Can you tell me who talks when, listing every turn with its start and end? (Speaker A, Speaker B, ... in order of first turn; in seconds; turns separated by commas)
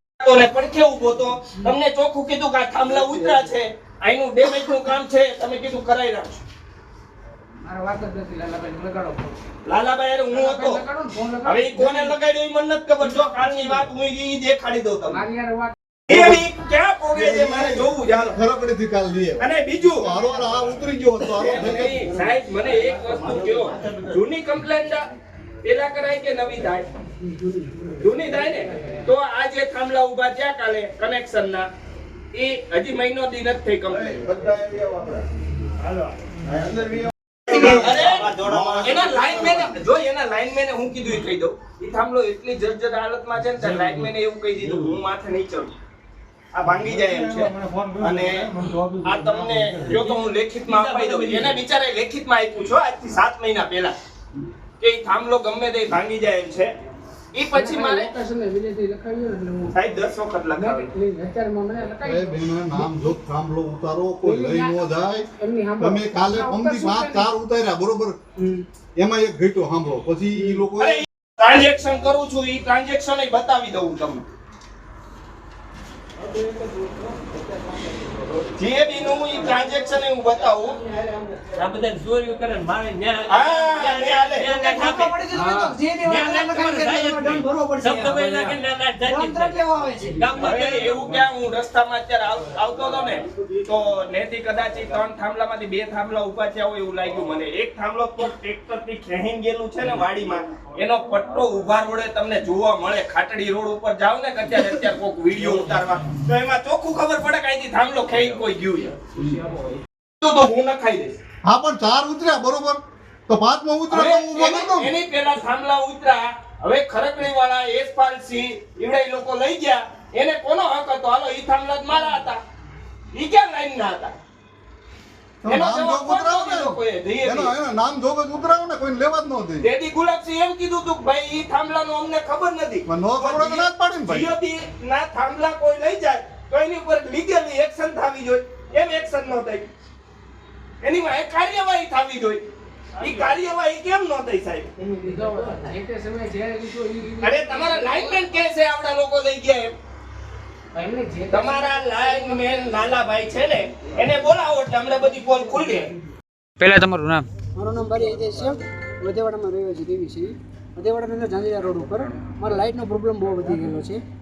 Speaker A: 0.2-6.4, Speaker B: 7.6-9.4, Speaker A: 9.7-10.8, Speaker B: 10.3-12.1, Speaker A: 11.4-15.2, Speaker B: 15.1-15.7, Speaker A: 16.1-18.4, Speaker C: 17.1-19.4, Speaker A: 19.4-20.1, Speaker C: 20.0-22.1, Speaker A: 21.3-25.1, Speaker A: 25.6-26.9, Speaker A: 28.0-31.7, Speaker A: 32.3-34.3, Speaker C: 34.4-35.1, Speaker A: 37.5-45.7, Speaker C: 38.2-38.9, Speaker A: 46.5-54.0, Speaker D: 50.0-51.6, Speaker A: 54.8-56.7, Speaker A: 57.3-58.1, Speaker B: 57.5-59.9, Speaker A: 59.7-60.9, Speaker B: 60.6-62.8, Speaker C: 62.0-65.3, Speaker B: 64.2-64.8, Speaker B: 65.4-67.3, Speaker C: 65.8-68.2, Speaker C: 69.0-71.0, Speaker A: 70.8-74.3, Speaker A: 78.5-80.8, Speaker D: 81.5-91.1, Speaker A: 83.3-84.6, Speaker E: 84.6-88.4, Speaker E: 89.0-90.2, Speaker A: 90.4-109.0, Speaker A: 110.2-111.2, Speaker C: 111.5-114.9, Speaker A: 113.9-122.4, Speaker A: 123.1-124.2, Speaker C: 125.4-129.7, Speaker A: 125.5-127.5, Speaker A: 129.6-139.7, Speaker C: 132.9-134.3, Speaker A: 140.8-142.4, Speaker A: 143.0-144.7, Speaker B: 144.8-148.0, Speaker A: 147.2-149.7, Speaker B: 150.8-151.8, Speaker A: 151.3-155.9, Speaker E: 157.6-164.0